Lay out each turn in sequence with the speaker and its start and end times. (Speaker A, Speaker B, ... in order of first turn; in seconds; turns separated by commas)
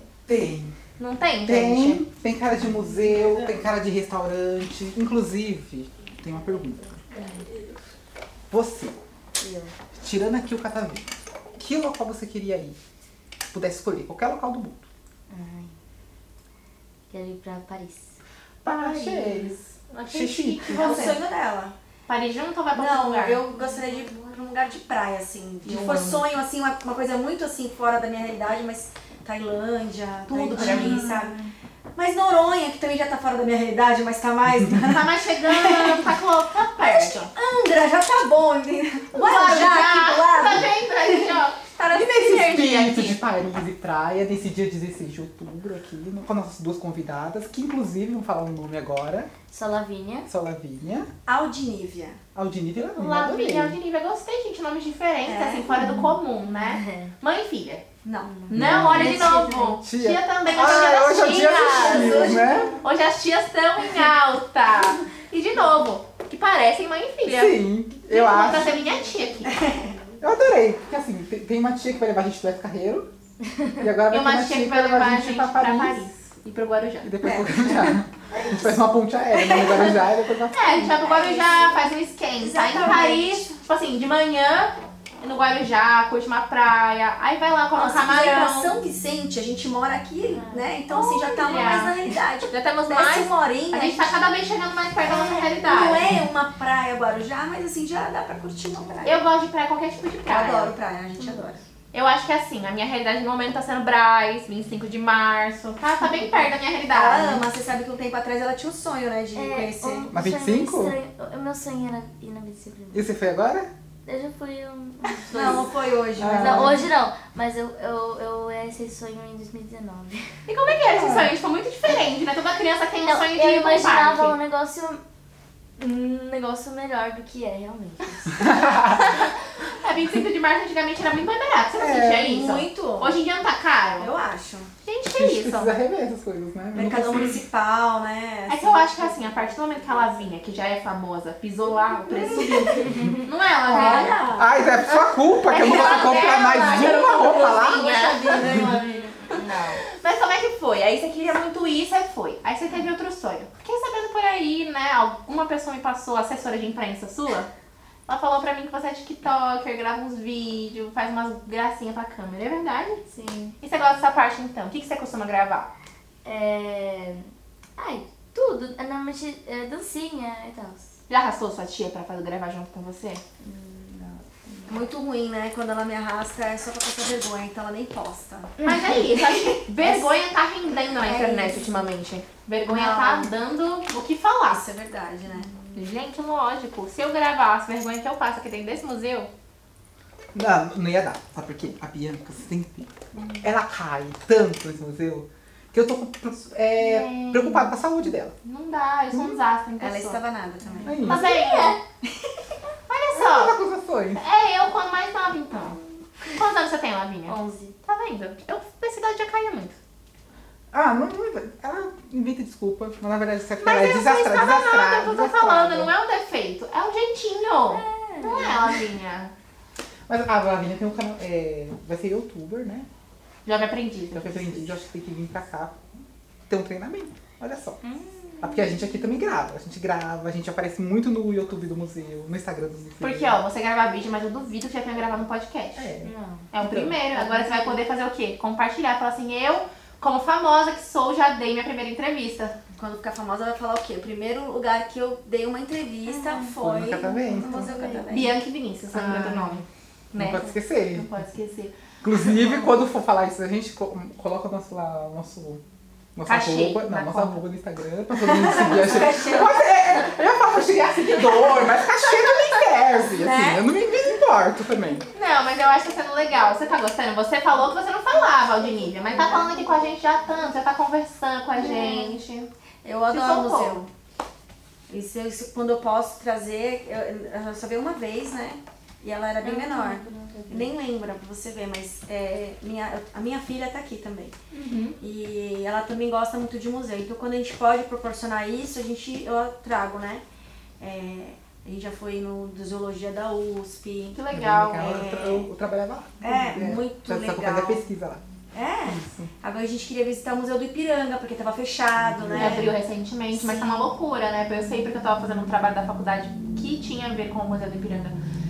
Speaker A: 0.2-0.8, Speaker B: 1.0-2.0, Speaker A: 1.4-7.0, Speaker C: 7.1-7.5, Speaker A: 8.5-9.0, Speaker C: 9.4-9.7, Speaker A: 9.9-12.8, Speaker A: 13.5-14.8, Speaker C: 15.3-15.7, Speaker C: 17.1-18.2, Speaker A: 18.6-21.1, Speaker B: 18.6-21.2, Speaker D: 20.6-21.7, Speaker B: 22.1-23.4, Speaker D: 22.7-36.2, Speaker B: 25.6-26.2, Speaker B: 30.3-31.2, Speaker A: 30.5-31.2, Speaker B: 34.9-37.3, Speaker D: 36.8-42.1, Speaker B: 39.1-43.2, Speaker A: 41.9-49.3, Speaker C: 49.5-50.3, Speaker A: 50.3-51.1, Speaker D: 51.2-52.2, Speaker A: 52.3-53.8, Speaker B: 52.9-57.9, Speaker D: 55.2-55.9, Speaker C: 56.5-57.1, Speaker D: 58.0-58.5, Speaker B: 58.5-67.5, Speaker A: 58.5-59.3, Speaker C: 58.6-59.8, Speaker A: 59.8-62.8, Speaker D: 60.5-60.9, Speaker D: 61.5-62.8, Speaker A: 67.2-68.8, Speaker B: 68.1-69.8, Speaker C: 68.3-69.0, Speaker D: 69.5-69.9, Speaker C: 69.6-70.1, Speaker A: 70.2-73.1, Speaker C: 73.5-73.8, Speaker A: 73.8-76.1, Speaker B: 74.1-77.1, Speaker A: 77.0-81.0, Speaker D: 77.2-80.0, Speaker B: 77.7-78.0, Speaker B: 80.5-88.7, Speaker D: 80.8-81.8, Speaker D: 82.3-83.5, Speaker D: 87.7-94.2, Speaker C: 90.3-90.7, Speaker B: 90.9-96.0, Speaker D: 95.0-99.2, Speaker B: 99.0-100.8, Speaker D: 100.2-101.6, Speaker C: 101.2-101.5, Speaker B: 101.9-107.4, Speaker D: 106.0-110.1, Speaker C: 109.3-113.1, Speaker A: 110.1-111.0, Speaker A: 112.9-113.7, Speaker C: 114.0-115.7, Speaker D: 115.3-116.8, Speaker A: 116.2-116.9, Speaker C: 116.3-120.3, Speaker B: 120.5-124.4, Speaker A: 120.9-121.3, Speaker C: 123.0-125.0, Speaker C: 125.8-128.8, Speaker A: 128.5-128.8, Speaker B: 128.8-134.1, Speaker A: 131.8-132.5, Speaker D: 132.2-133.2, Speaker D: 134.0-134.7, Speaker B: 134.8-135.8, Speaker A: 135.1-137.4, Speaker D: 136.7-139.0, Speaker B: 138.5-144.2, Speaker D: 142.1-143.0, Speaker C: 142.1-143.2, Speaker D: 143.6-144.7, Speaker A: 143.7-148.7, Speaker B: 144.9-148.7, Speaker D: 145.7-146.2, Speaker C: 147.7-149.8, Speaker D: 148.1-148.7, Speaker B: 149.3-157.5, Speaker B: 158.1-163.1, Speaker C: 163.1-163.5, Speaker B: 163.6-165.7, Speaker C: 166.2-170.9, Speaker B: 171.1-173.2, Speaker C: 173.4-174.8, Speaker D: 174.7-180.1, Speaker C: 178.6-178.9, Speaker B: 178.6-184.6, Speaker D: 180.7-181.8, Speaker D: 182.6-183.3, Speaker D: 184.5-185.5, Speaker C: 185.3-185.9, Speaker B: 185.7-189.3, Speaker A: 190.3-198.3, Speaker C: 193.2-193.4, Speaker C: 196.8-197.7, Speaker B: 197.1-197.4, Speaker B: 198.4-200.2, Speaker A: 199.1-199.4, Speaker D: 199.8-201.1, Speaker C: 200.7-202.0, Speaker A: 200.8-201.3, Speaker B: 201.0-201.8, Speaker B: 202.9-203.5, Speaker A: 203.1-204.2, Speaker B: 204.1-209.8, Speaker C: 207.2-207.8, Speaker A: 210.7-215.9, Speaker B: 213.6-219.3, Speaker C: 217.7-218.7, Speaker A: 220.1-222.9, Speaker B: 223.4-224.8, Speaker A: 224.1-227.8, Speaker C: 227.8-229.2, Speaker A: 228.4-233.4, Speaker B: 233.0-235.9, Speaker A: 235.8-237.0, Speaker C: 236.0-236.5, Speaker B: 236.5-242.6, Speaker C: 237.1-237.8, Speaker D: 242.8-248.3, Speaker C: 246.1-246.6, Speaker A: 246.6-247.7, Speaker C: 247.1-248.1, Speaker B: 248.1-252.7, Speaker A: 248.9-249.6, Speaker A: 250.1-251.1, Speaker A: 252.0-255.6, Speaker A: 256.1-265.1, Speaker B: 256.2-257.4, Speaker D: 258.1-259.7, Speaker D: 261.1-263.8, Speaker B: 265.1-272.5, Speaker D: 269.1-269.6, Speaker C: 269.1-269.5, Speaker C: 271.5-272.2, Speaker D: 272.8-273.9, Speaker B: 273.1-273.8, Speaker D: 274.9-284.3, Speaker C: 279.4-280.7, Speaker B: 284.5-285.0, Speaker D: 285.0-290.2, Speaker D: 290.8-294.2, Speaker B: 294.1-294.9, Speaker A: 294.3-298.2, Speaker D: 294.8-295.5, Speaker D: 296.2-297.8, Speaker D: 298.5-302.8, Speaker A: 298.9-299.3, Speaker A: 302.2-302.6, Speaker B: 302.3-308.2, Speaker D: 303.3-303.9